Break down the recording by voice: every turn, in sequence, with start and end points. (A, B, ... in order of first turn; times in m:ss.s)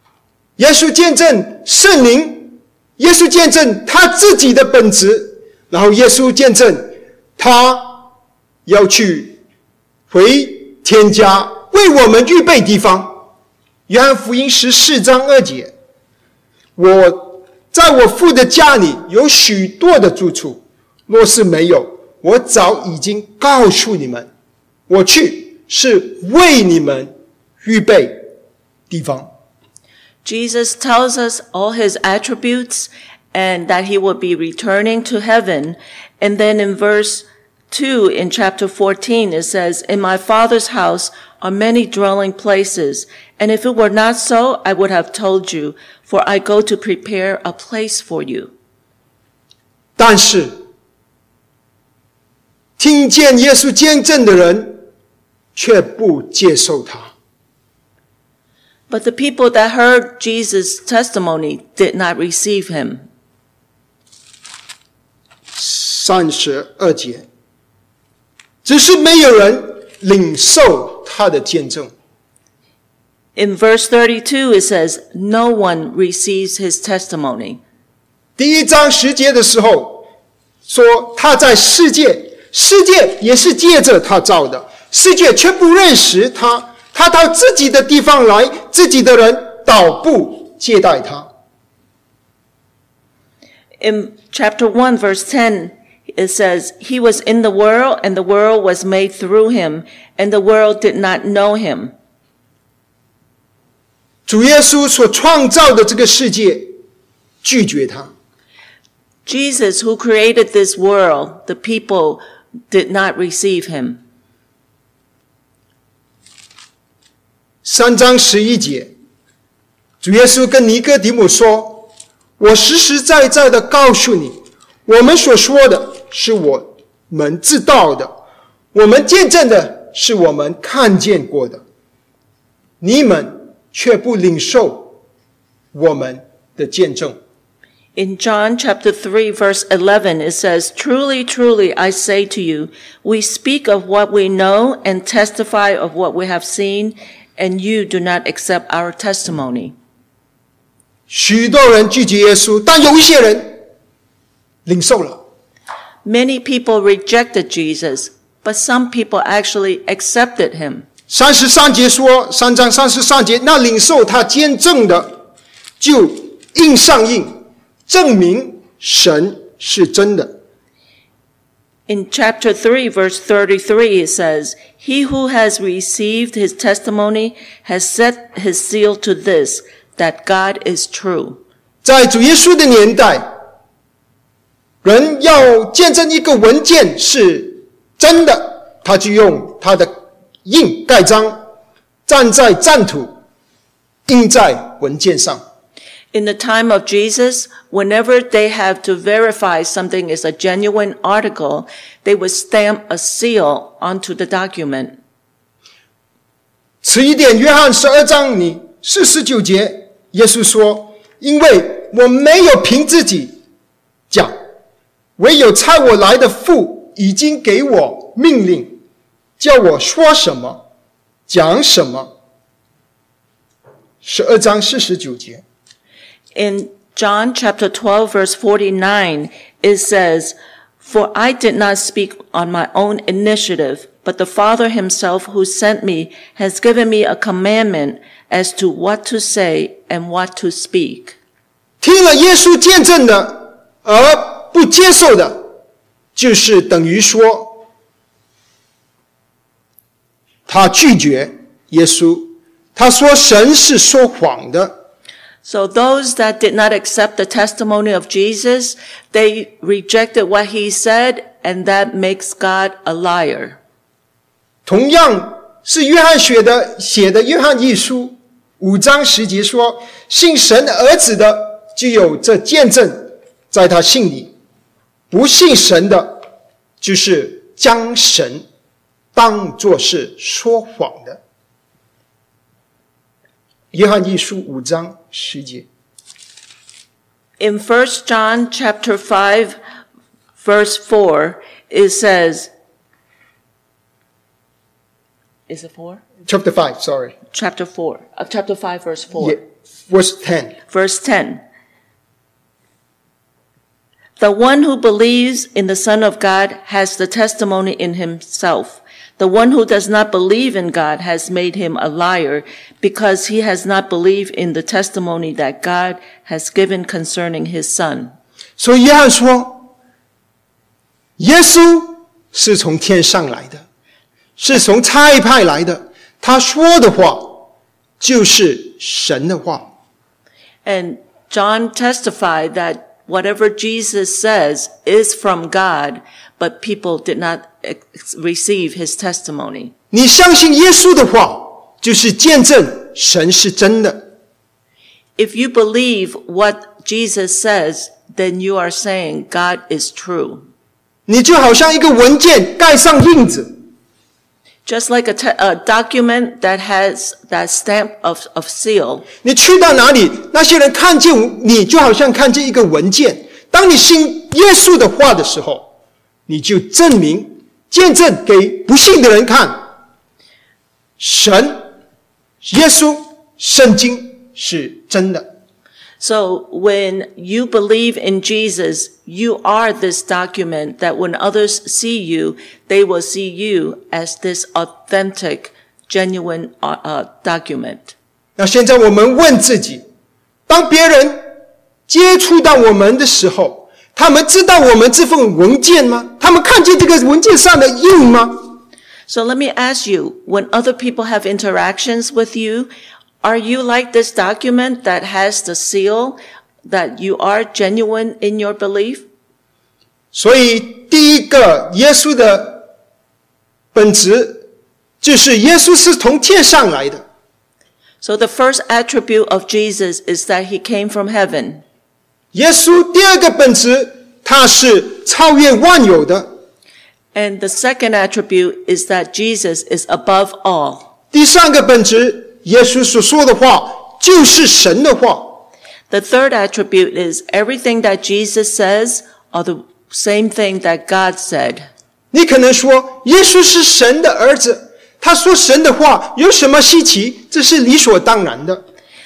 0:00.6-0:08.1 A
0:08.6-0:09.4 A
0:10.1-0:13.2 A
0:13.9-0:15.7 A
0:16.8-0:24.3 A
0:24.9-0:28.2 A
0:28.9-0:29.3 A
0:30.2-0:48.5 B
0:50.0-0:50.6 A
0:52.8-0:54.8 A
0:55.5-0:57.1 A
0:58.9-1:03.0 B
1:05.5-1:07.2 A
1:08.6-1:11.9 A
1:13.4-1:17.6 B
1:18.4-1:20.0 A
1:20.7-1:31.3 A
1:33.8-1:41.9 B
1:44.3-1:46.7 A
1:47.4-1:48.1 A
1:49.2-1:54.0 B
1:57.6-1:58.9 A
2:00.0-2:08.2 A
2:08.7-2:11.6 A
2:12.8-2:15.0 A
2:15.7-2:17.2 A
2:18.0-2:29.7 B
2:31.1-2:33.6 A
2:34.6-2:35.2 A
2:36.0-2:40.9 B
2:41.1-2:45.2 A
2:45.8-2:50.4 A
2:51.9-3:01.4 B
3:01.8-3:03.3 A
3:04.8-3:11.4 A
3:12.1-3:13.1 A
3:14.1-3:15.4 A
3:16.1-3:25.0 B
3:26.8-3:33.3 A
3:34.1-3:34.4 A
3:35.2-3:38.8 A
3:39.4-3:40.6 A
3:41.3-3:42.1 A
3:44.0-3:45.4 A
3:46.3-4:01.2 B
4:01.8-4:05.5 A
4:06.2-4:07.6 A
4:10.5-4:14.8 A
4:15.4-4:23.6 B
4:24.6-4:34.3 A
4:35.1-4:36.2 A
4:36.8-4:38.4 A
4:39.1-4:41.2 A
4:43.7-4:45.7 A
4:47.4-4:49.6 B
4:50.4-4:52.5 B
4:55.5-4:56.0 B
4:56.2-4:57.1 A
4:57.3-4:59.4 B
4:59.2-5:00.5 A
5:00.7-5:01.4 B
5:04.2-5:18.1 B
5:18.6-5:19.7 A
5:21.2-5:23.6 A
5:24.4-5:27.5 A
5:28.0-5:29.7 A
5:30.6-5:39.7 B
5:39.9-5:44.0 A
5:45.2-5:50.4 B
5:51.1-5:53.5 A
5:54.6-5:59.0 B
5:59.2-6:05.7 A
6:06.3-6:09.7 A
6:11.0-6:11.7 A
6:12.4-6:15.3 A
6:16.0-6:27.9 B
6:28.4-6:29.8 A
6:30.5-6:31.2 A
6:31.9-6:38.6 A
6:39.1-6:42.7 B
6:43.2-6:49.0 B
6:50.1-6:52.6 A
6:53.7-6:54.4 A
6:55.0-6:57.0 A
6:58.0-7:01.6 B
7:02.3-7:06.3 A
7:07.1-7:10.9 B
7:11.1-7:15.4 A
7:15.9-7:21.7 B
7:22.1-7:28.6 A